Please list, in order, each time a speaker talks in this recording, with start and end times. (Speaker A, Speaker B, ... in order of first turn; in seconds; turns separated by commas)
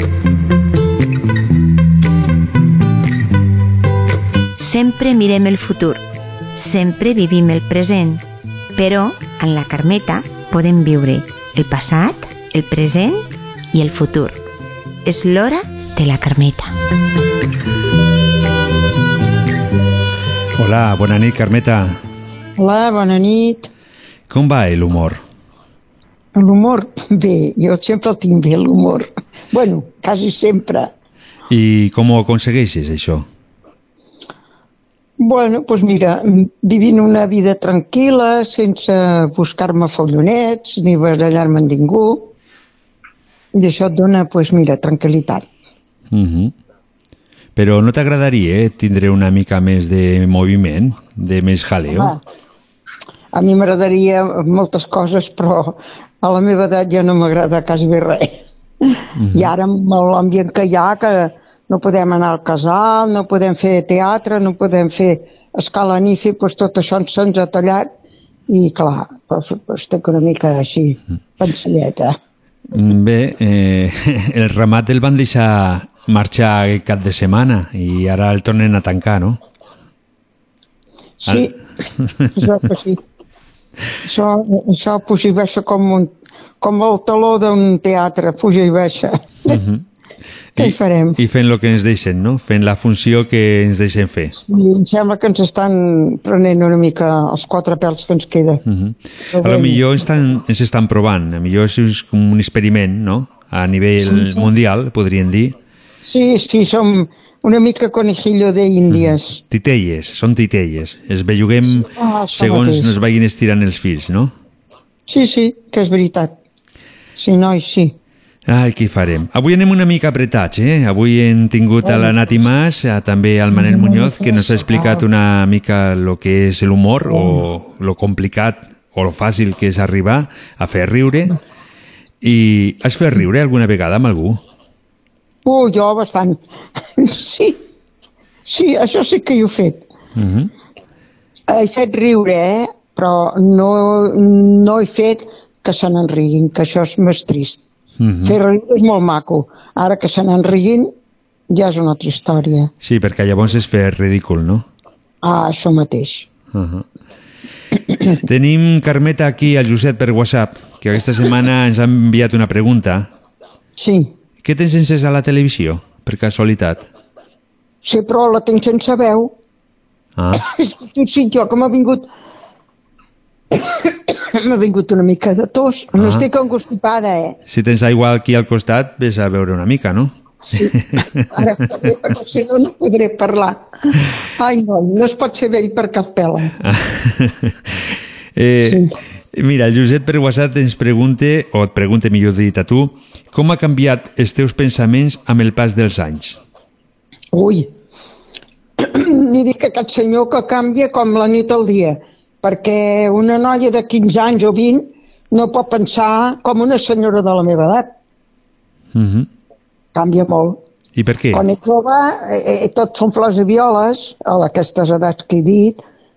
Speaker A: 4.6-8.2, Speaker A: 8.8-14.4, Speaker A: 15.0-16.7, Speaker B: 20.6-22.0, Speaker C: 22.6-23.7, Speaker B: 24.3-25.2, Speaker C: 26.4-30.9, Speaker B: 31.5-33.3, Speaker C: 35.2-42.3, Speaker C: 43.5-45.5, Speaker B: 46.1-46.5, Speaker B: 47.5-52.1, Speaker C: 51.9-52.2, Speaker C: 53.3-58.4, Speaker B: 59.2-59.5, Speaker C: 59.3-67.9, Speaker C: 68.5-72.2, Speaker B: 72.7-79.4, Speaker C: 81.2-81.5, Speaker B: 81.2-82.5, Speaker C: 82.4-83.0, Speaker C: 84.1-89.6, Speaker B: 89.5-89.8, Speaker B: 90.5-94.3, Speaker C: 90.6-91.2, Speaker C: 94.4-98.6, Speaker B: 98.7-105.5, Speaker C: 99.3-99.9, Speaker C: 104.0-104.5, Speaker C: 106.0-109.4, Speaker B: 108.9-114.3, Speaker C: 111.8-113.0, Speaker C: 115.1-116.3, Speaker C: 117.2-117.9, Speaker B: 118.5-131.3, Speaker C: 121.8-122.2, Speaker C: 123.5-125.0, Speaker C: 127.1-127.4, Speaker B: 132.2-134.4, Speaker C: 135.4-136.4, Speaker C: 137.0-137.6, Speaker C: 138.5-139.8, Speaker B: 140.2-140.5, Speaker C: 141.5-147.6, Speaker B: 148.0-148.4, Speaker C: 148.2-150.9, Speaker C: 151.5-152.7, Speaker B: 152.8-154.6, Speaker C: 155.2-156.2, Speaker B: 156.5-156.9, Speaker B: 158.2-163.1, Speaker C: 163.8-164.1, Speaker B: 164.4-166.9, Speaker C: 167.8-169.3, Speaker B: 170.2-170.4, Speaker C: 170.4-172.1, Speaker C: 173.5-177.4, Speaker B: 176.0-176.2, Speaker B: 177.5-181.2, Speaker C: 180.5-186.5, Speaker B: 186.6-187.5, Speaker B: 188.4-188.8, Speaker B: 189.3-196.4, Speaker C: 197.3-197.7, Speaker C: 198.8-207.9, Speaker B: 208.9-209.3, Speaker C: 209.9-210.6, Speaker B: 210.9-211.4, Speaker C: 211.3-215.8